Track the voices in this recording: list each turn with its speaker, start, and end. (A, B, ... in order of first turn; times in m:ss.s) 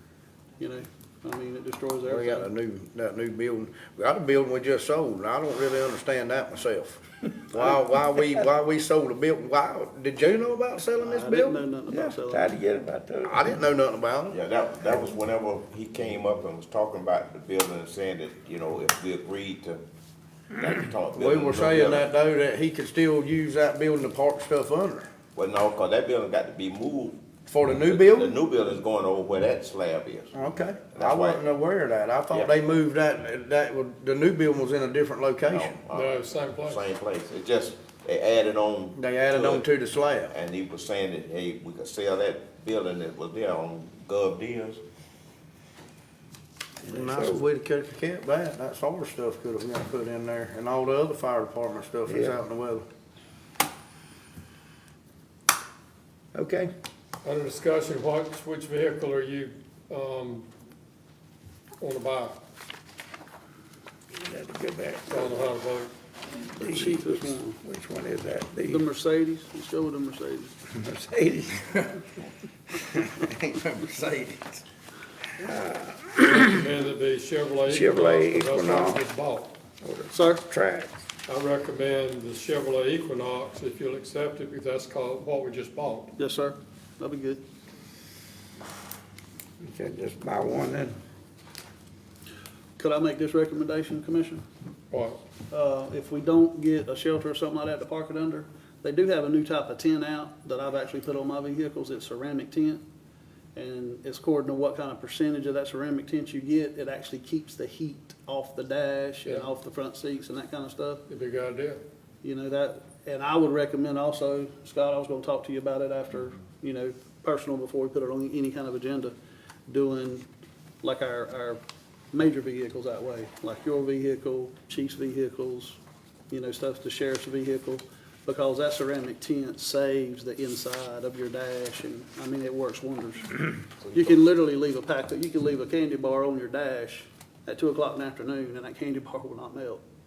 0:00.6-0:02.5 A
0:02.1-0:11.6 B
0:11.0-0:12.6 A
0:11.9-0:13.6 C
0:13.2-0:15.0 B
0:14.3-0:19.8 D
0:20.5-0:22.1 D
0:21.1-0:25.1 B
0:25.3-0:31.5 D
0:27.5-0:28.4 B
0:30.3-0:35.8 B
0:35.5-0:39.7 D
0:35.9-0:36.8 E
0:39.0-0:40.3 B
0:40.3-0:44.8 D
0:46.8-0:47.4 C
0:46.9-0:52.8 B
0:52.1-0:52.4 C
0:56.3-0:56.7 C
0:57.2-1:00.5 E
1:01.8-1:02.4 E
1:04.1-1:05.4 C
1:05.1-1:05.9 E
1:06.6-1:07.6 A
1:06.6-1:08.8 C
1:08.6-1:10.5 A
1:10.7-1:11.9 C
1:13.2-1:14.6 B
1:15.4-1:16.7 C
1:16.2-1:19.5 E
1:17.7-1:19.0 C
1:19.8-1:21.0 C
1:20.1-1:20.4 A
1:21.3-1:26.1 E
1:26.2-1:27.4 A
1:29.6-1:31.0 C
1:32.8-1:34.4 A
1:34.9-1:35.2 E
1:35.5-1:42.8 A
1:43.5-1:51.0 A
1:51.1-1:51.8 E
1:52.2-1:59.1 A
1:59.7-2:00.2 A
2:00.8-2:01.6 A
2:02.1-2:05.8 A
2:06.3-2:19.8 A
2:13.8-2:14.2 D